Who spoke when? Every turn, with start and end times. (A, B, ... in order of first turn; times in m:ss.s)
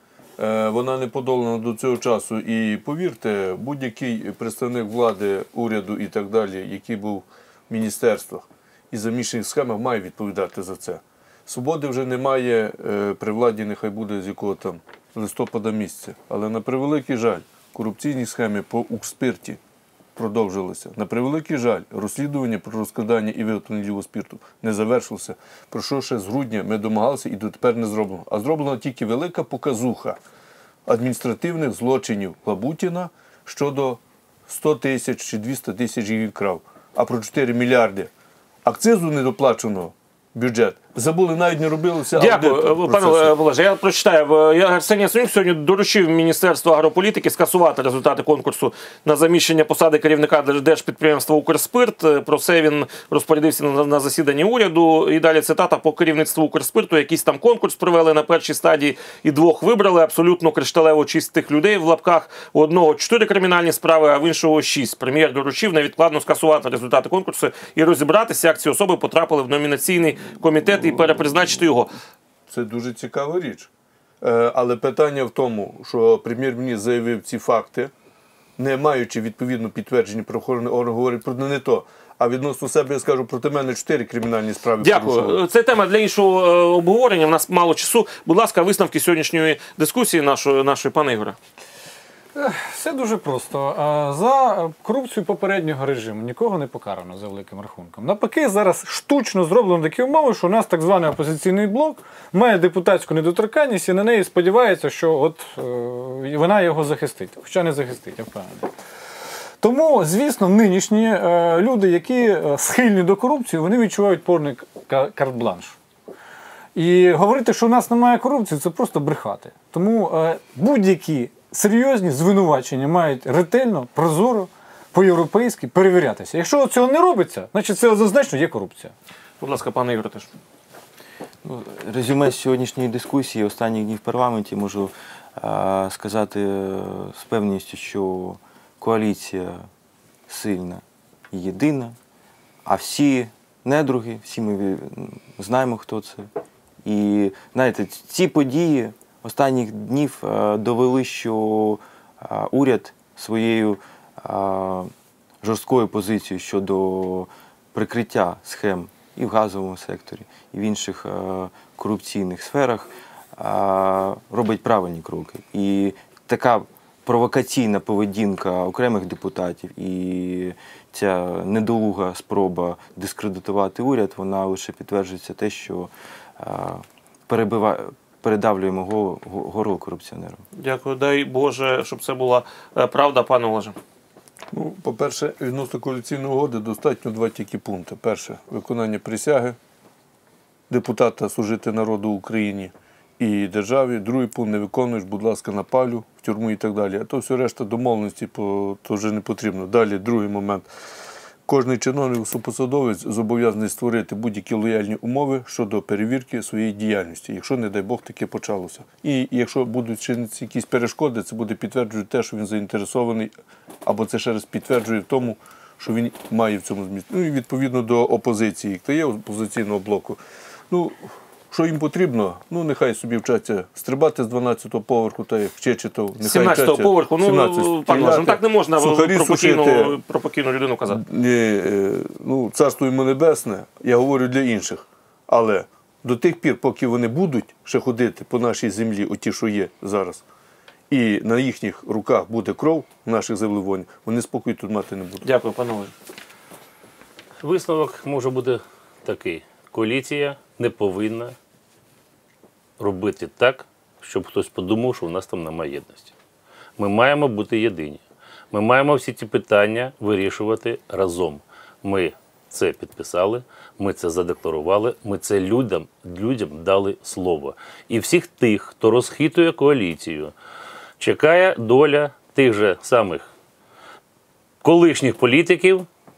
0:00.4-0:19.6 A
0:20.2-0:30.2 A
0:30.9-0:38.1 A
0:38.6-0:43.3 A
0:42.1-1:11.9 B
1:12.5-1:13.7 A
1:14.2-1:17.9 A
1:18.6-1:25.4 A
1:24.8-1:31.4 B
1:32.4-1:48.7 C
1:49.6-1:55.8 C
1:56.8-2:08.9 C
2:09.4-2:10.3 B
2:11.4-2:19.6 D
2:20.3-2:22.0 D
2:22.7-2:26.3 D
2:26.8-2:34.9 D
2:35.4-3:00.4 D
3:00.6-3:03.8 B
3:04.5-3:09.6 A
3:10.7-3:20.7 A
3:21.5-3:33.3 A
3:33.8-3:50.0 A
3:46.2-3:51.0 B
3:50.9-4:00.2 A
4:00.9-4:05.3 A
4:05.2-4:05.9 B
4:07.4-4:11.4 E
4:12.8-4:16.1 E
4:16.8-4:30.3 E
4:31.0-4:33.3 E
4:34.6-4:35.9 E